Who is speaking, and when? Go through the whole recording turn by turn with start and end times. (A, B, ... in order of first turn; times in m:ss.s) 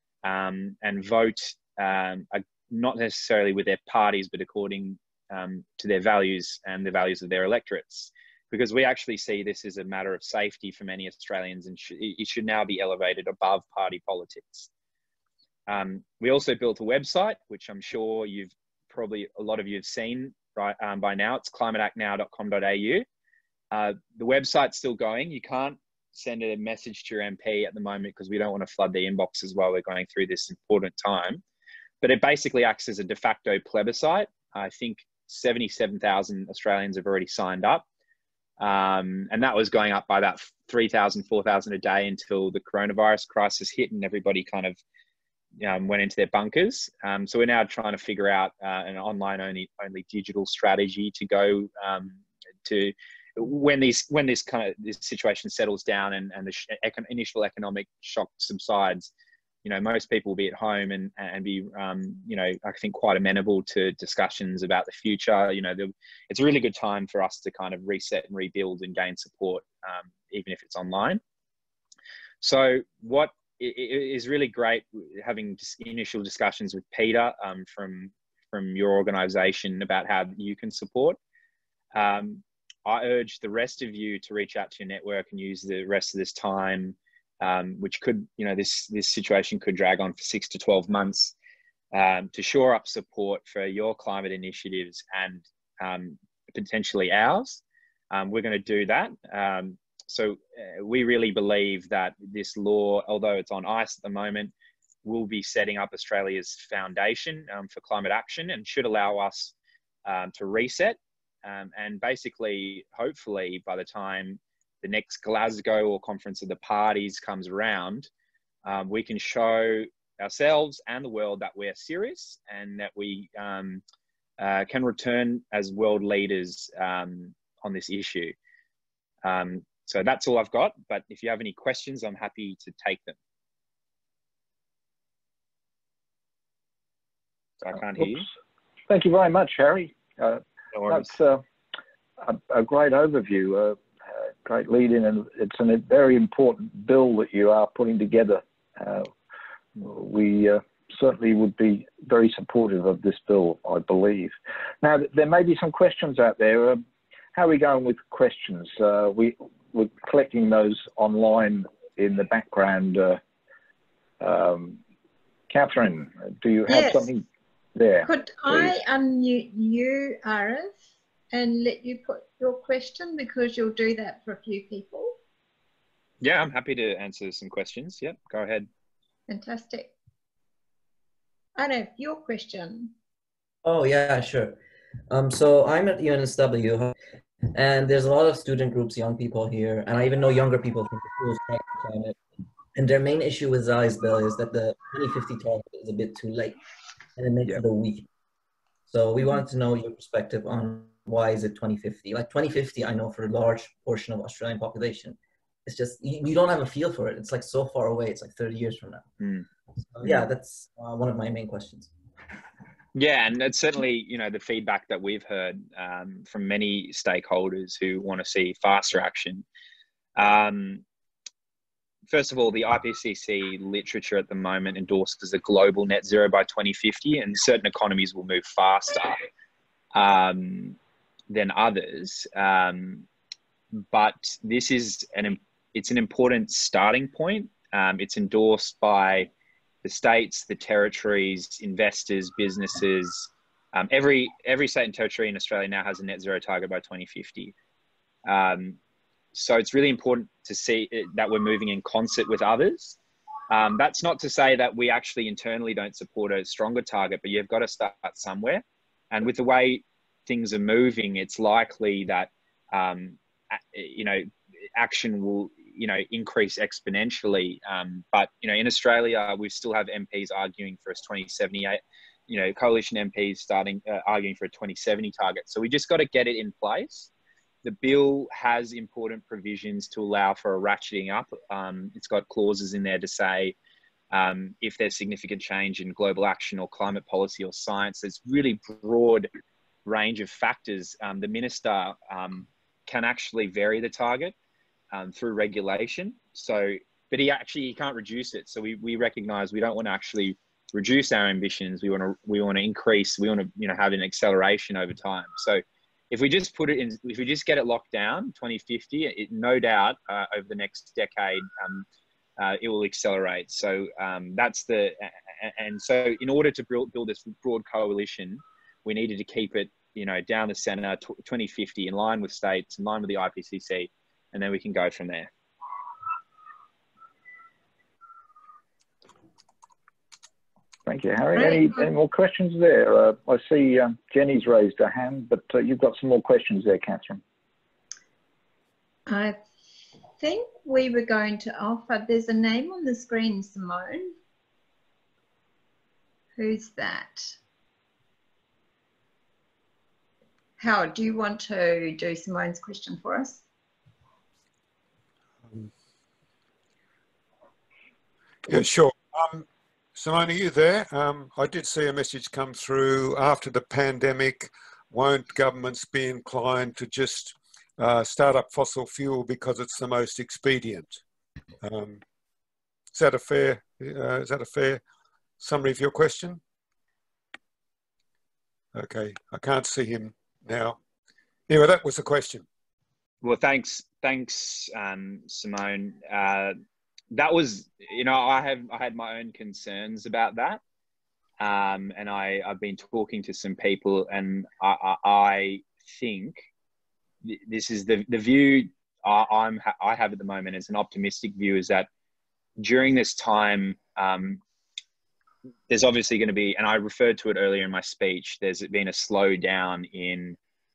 0:00.2-0:14.7 A
0:15.7-0:23.0 A
0:23.7-0:31.4 A
0:32.0-0:37.8 A
0:38.6-0:44.8 A
0:45.6-0:59.1 A
0:59.6-1:11.2 A
1:12.4-1:21.2 A
1:21.9-1:31.3 A
1:31.9-1:44.5 A
1:45.0-1:49.5 A
1:50.0-1:58.1 A
1:58.6-2:03.8 A
2:04.4-2:08.3 A
2:09.2-2:13.2 A
2:17.6-2:18.3 A
2:18.9-2:21.4 B
2:20.7-2:21.1 A
2:22.2-2:29.1 B
2:29.8-2:36.8 B
2:37.3-2:43.2 B
2:44.2-2:44.8 B
2:45.5-2:48.7 B
2:46.7-2:47.1 C
2:48.0-2:50.7 C
2:51.3-2:55.2 C
2:56.2-2:58.7 A
2:59.3-2:59.9 C
3:01.6-3:02.9 C
3:03.6-3:04.6 D
3:05.1-3:06.9 D
3:07.5-3:12.2 D
3:12.7-3:16.6 D
3:17.2-3:18.1 D
3:18.9-3:29.0 D
3:29.2-3:29.4 A
3:29.9-3:31.9 D
3:32.9-3:39.4 A
3:40.2-3:40.8 A
3:42.1-3:49.2 A
3:49.9-3:50.8 A
3:51.3-3:53.0 A
3:53.7-3:59.3 A
3:59.8-4:07.5 A
4:08.2-4:08.8 A
4:09.3-4:13.0 A
4:13.5-4:37.1 A
4:37.6-4:43.6 A
4:44.1-4:49.3 A
4:49.8-4:54.3 A
4:54.9-5:11.8 A
5:12.4-5:25.3 A
5:30.8-5:37.2 B
5:31.4-5:31.8 C
5:39.1-5:39.4 C
5:40.2-5:44.1 C
5:46.4-5:47.3 C
5:50.6-5:53.4 C
5:58.5-6:11.0 E
6:11.6-6:12.0 E
6:12.9-6:14.8 E
6:15.4-6:16.4 E
6:18.7-6:20.8 E
6:21.5-6:22.4 E
6:23.2-6:26.5 A
6:27.1-6:30.6 A
6:31.4-6:36.4 A
6:37.2-6:41.9 A
6:42.6-6:44.4 A
6:45.7-6:50.4 A